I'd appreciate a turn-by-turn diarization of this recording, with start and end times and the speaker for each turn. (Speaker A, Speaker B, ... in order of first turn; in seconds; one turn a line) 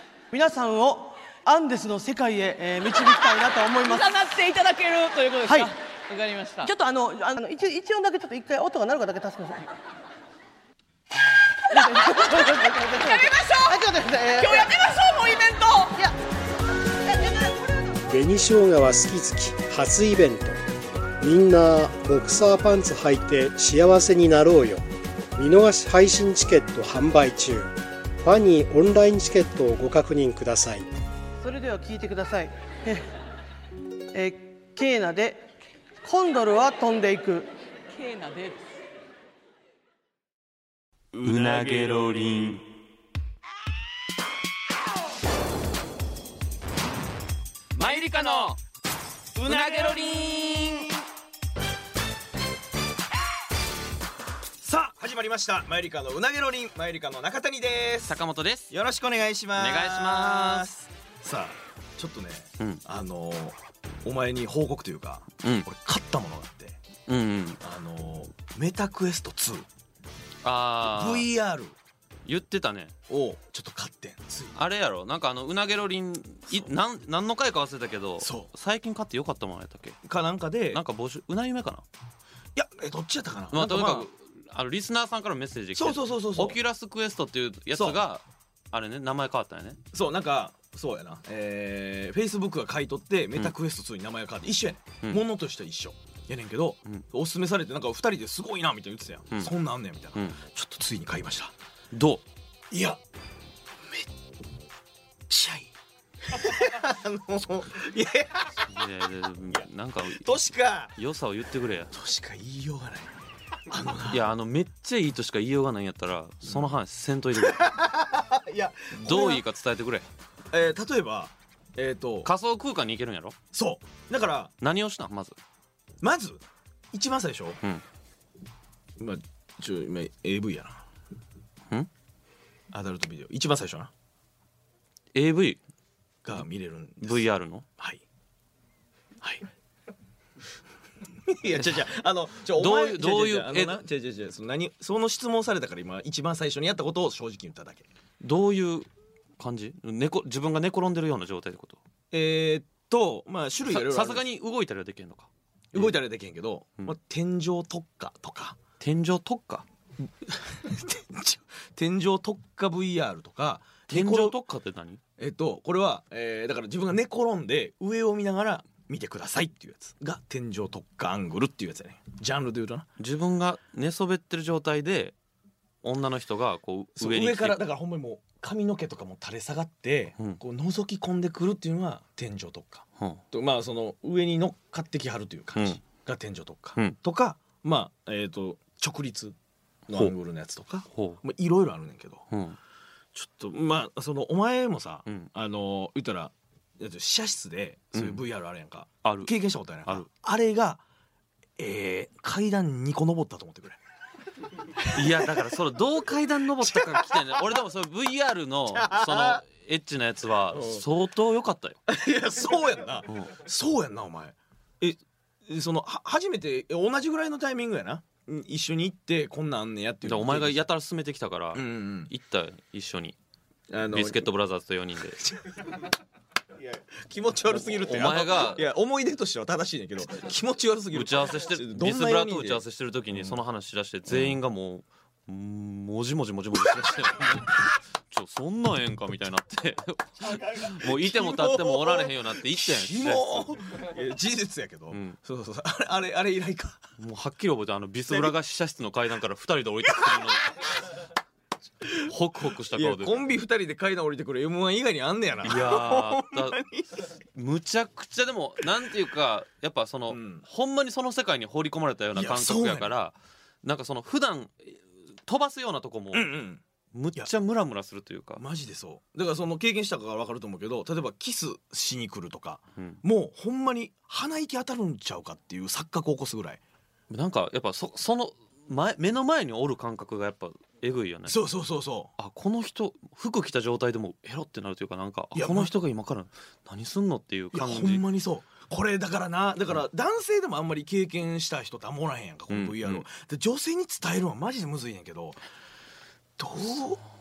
Speaker A: 0.3-4.2
Speaker B: 3.8-6.7
Speaker A: 5.4-5.7
Speaker A: 6.6-9.7
Speaker A: 11.7-14.8
Speaker B: 13.1-13.8
Speaker B: 14.4-16.0
Speaker A: 15.9-16.1
Speaker C: 18.1-20.6
Speaker C: 21.2-24.8
Speaker C: 25.4-30.9
Speaker A: 31.4-33.1
Speaker A: 34.1-35.5
Speaker A: 36.0-37.5
Speaker B: 37.9-38.6
Speaker D: 41.1-42.2
Speaker E: 41.2-42.6
Speaker E: 47.7-48.6
Speaker D: 49.4-51.0
Speaker E: 49.4-50.9
Speaker D: 54.6-58.1
Speaker E: 58.0-58.7
Speaker D: 58.7-66.8
Speaker E: 59.5-60.7
Speaker E: 65.4-65.7
Speaker E: 67.1-67.6
Speaker D: 67.6-69.7
Speaker E: 70.4-71.3
Speaker D: 70.8-71.8
Speaker E: 72.2-72.9
Speaker D: 73.1-74.6
Speaker E: 74.5-80.0
Speaker D: 78.2-78.5
Speaker D: 80.0-80.8
Speaker E: 80.7-81.8
Speaker D: 82.5-84.1
Speaker E: 83.5-89.8
Speaker D: 85.7-86.6
Speaker D: 87.7-88.0
Speaker D: 89.9-101.5
Speaker E: 100.1-100.4
Speaker E: 101.9-102.2
Speaker D: 102.7-103.0
Speaker D: 105.3-105.7
Speaker D: 106.2-108.6
Speaker E: 108.7-110.4
Speaker D: 109.5-110.9
Speaker E: 111.0-111.9
Speaker D: 111.9-113.1
Speaker D: 113.7-114.3
Speaker E: 114.1-117.7
Speaker D: 117.4-119.4
Speaker E: 118.9-120.0
Speaker D: 120.5-122.3
Speaker E: 122.2-123.3
Speaker D: 123.5-124.5
Speaker E: 124.6-125.3
Speaker D: 126.0-126.4
Speaker D: 126.9-127.6
Speaker D: 129.0-130.8
Speaker D: 132.7-133.9
Speaker E: 135.1-135.6
Speaker D: 136.2-137.2
Speaker E: 137.0-137.7
Speaker D: 139.2-139.5
Speaker D: 141.2-147.9
Speaker E: 142.5-143.8
Speaker E: 148.2-148.9
Speaker E: 149.4-151.8
Speaker D: 152.1-154.2
Speaker E: 153.7-155.9
Speaker D: 155.7-158.6
Speaker E: 158.8-159.7
Speaker D: 160.2-164.4
Speaker E: 163.9-165.0
Speaker D: 165.2-172.9
Speaker E: 173.0-175.1
Speaker E: 175.8-177.6
Speaker D: 176.9-189.3
Speaker E: 185.6-185.8
Speaker D: 189.9-192.2
Speaker E: 190.9-191.2
Speaker E: 192.3-192.6
Speaker D: 193.1-200.8
Speaker E: 197.9-198.2
Speaker E: 199.0-199.3
Speaker D: 201.6-203.8
Speaker D: 204.8-205.4
Speaker E: 204.9-211.8
Speaker D: 206.6-207.2
Speaker D: 208.7-209.4
Speaker D: 210.5-210.8
Speaker D: 211.9-220.6
Speaker E: 220.0-223.2
Speaker D: 221.5-222.1
Speaker D: 223.7-224.2
Speaker E: 223.9-225.2
Speaker D: 225.2-225.9
Speaker D: 226.6-232.6
Speaker E: 227.5-228.7
Speaker E: 230.9-243.5
Speaker D: 234.1-234.4
Speaker D: 240.3-246.8
Speaker E: 244.9-245.2
Speaker E: 247.0-250.5
Speaker D: 248.1-248.3
Speaker D: 249.9-250.3
Speaker D: 251.8-252.1
Speaker E: 252.0-253.2
Speaker D: 252.7-257.1
Speaker E: 255.4-256.6
Speaker E: 257.3-266.3
Speaker D: 260.1-260.4
Speaker D: 262.1-262.9
Speaker D: 266.1-266.6
Speaker E: 266.9-268.4
Speaker D: 268.4-276.6
Speaker E: 277.1-281.4
Speaker D: 281.3-282.1
Speaker E: 282.2-288.0
Speaker D: 285.3-285.7
Speaker D: 287.5-295.4
Speaker E: 292.5-293.0
Speaker D: 296.4-297.0